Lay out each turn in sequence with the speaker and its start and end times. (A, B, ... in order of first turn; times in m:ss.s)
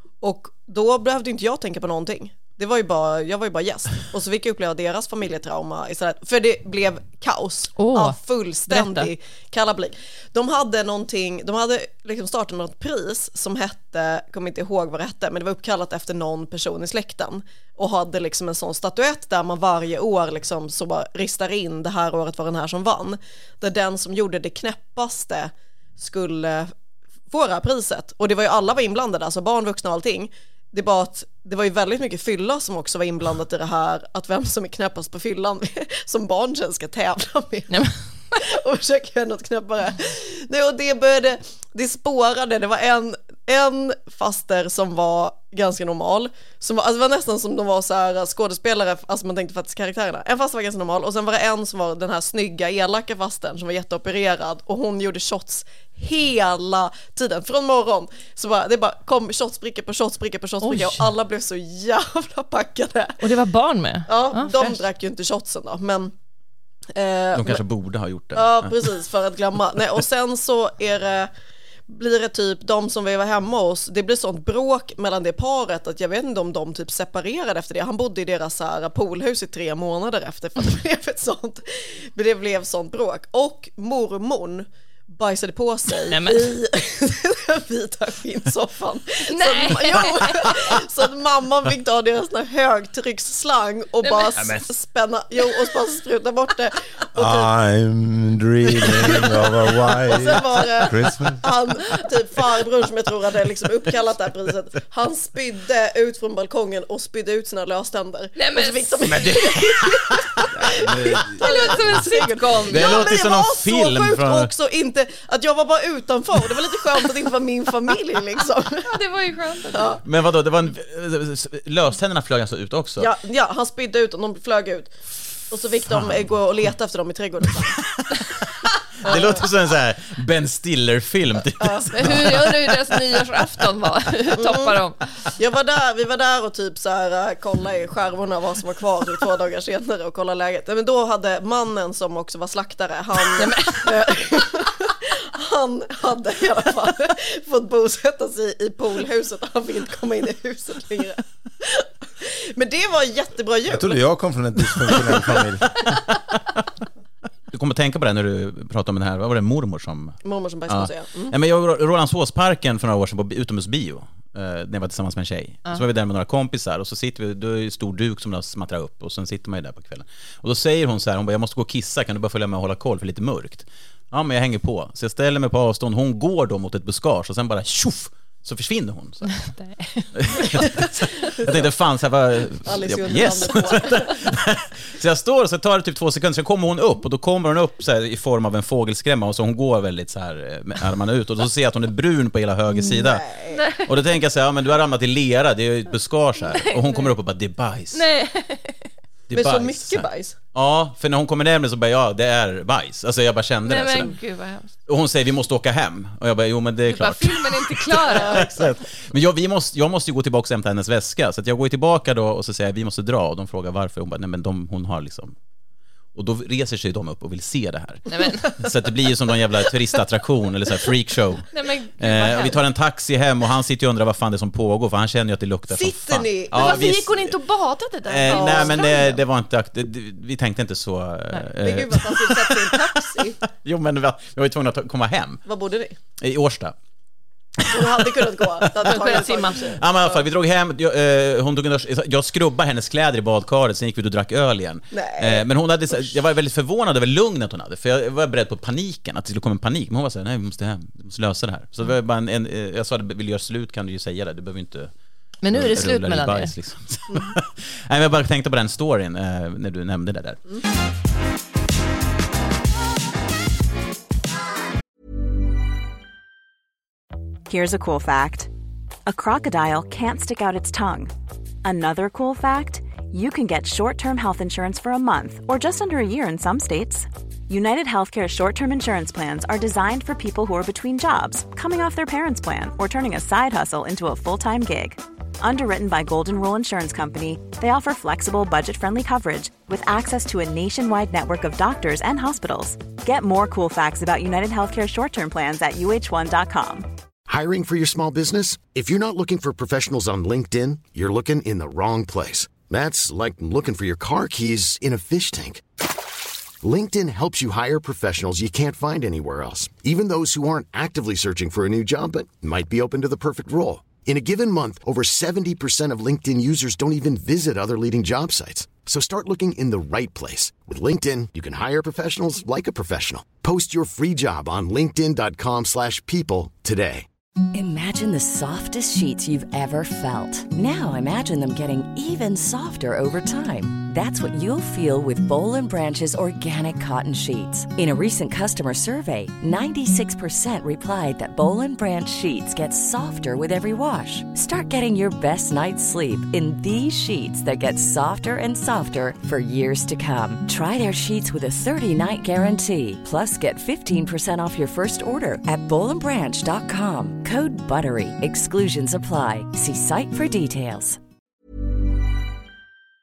0:00.2-0:26.7 A
0:07.8-0:08.2 B
0:08.7-0:09.1 B
0:27.3-0:37.7 A
0:37.7-0:37.9 B
0:38.4-1:03.2 A
1:00.6-1:01.0 B
1:03.2-1:04.8 B
1:04.1-1:06.1 A
1:06.9-1:07.6 A
1:07.3-1:08.8 C
1:08.3-1:11.3 A
1:11.9-1:37.5 A
1:26.1-1:26.6 B
1:29.3-1:30.6 B
1:34.0-1:34.5 B
1:37.2-1:41.4 D
1:38.8-1:39.3 A
1:39.9-1:58.9 A
1:48.4-1:49.5 B
1:49.1-1:50.2 C
1:50.6-1:51.4 D
1:51.4-1:53.0 B
1:52.7-1:54.5 C
1:58.8-2:00.0 B
1:59.7-2:00.0 A
2:00.0-2:03.1 C
2:03.0-2:04.9 A
2:05.5-2:07.8 A
2:05.9-2:06.3 C
2:07.8-2:12.8 C
2:09.0-2:09.4 A
2:11.6-2:12.2 A
2:11.9-2:15.0 B
2:14.4-2:14.7 A
2:15.4-2:34.0 A
2:23.4-2:24.0 B
2:33.7-2:35.8 D
2:37.5-2:59.4 C
2:40.2-2:41.3 A
2:59.3-3:00.7 B
3:00.1-3:00.8 C
3:00.8-3:01.6 A
3:01.4-3:13.2 C
3:02.6-3:04.2 A
3:12.8-3:13.6 A
3:13.5-3:13.9 B
3:13.8-3:18.0 C
3:16.4-3:17.1 B
3:17.9-3:18.9 B
3:19.3-3:24.1 C
3:19.3-3:20.3 A
3:23.6-3:24.7 B
3:24.8-3:35.3 C
3:26.8-3:28.4 B
3:28.1-3:28.8 A
3:36.1-3:41.5 C
3:38.1-3:38.6 B
3:41.5-3:42.6 B
3:42.0-3:47.3 C
3:45.7-3:46.9 A
3:46.5-3:49.2 B
3:48.1-3:55.4 C
3:48.3-3:48.9 A
3:51.6-3:53.4 A
3:55.4-3:56.0 A
3:56.2-3:56.7 C
3:57.6-3:59.1 C
3:57.7-4:00.2 A
3:58.8-3:59.8 B
3:59.8-4:14.9 C
4:04.9-4:06.1 A
4:15.4-4:16.5 B
4:15.5-4:20.4 C
4:27.5-4:28.5 E
4:29.0-4:31.1 E
4:31.6-4:56.8 E
4:57.3-5:05.6 F
5:06.6-5:27.0 F
5:27.5-6:01.0 G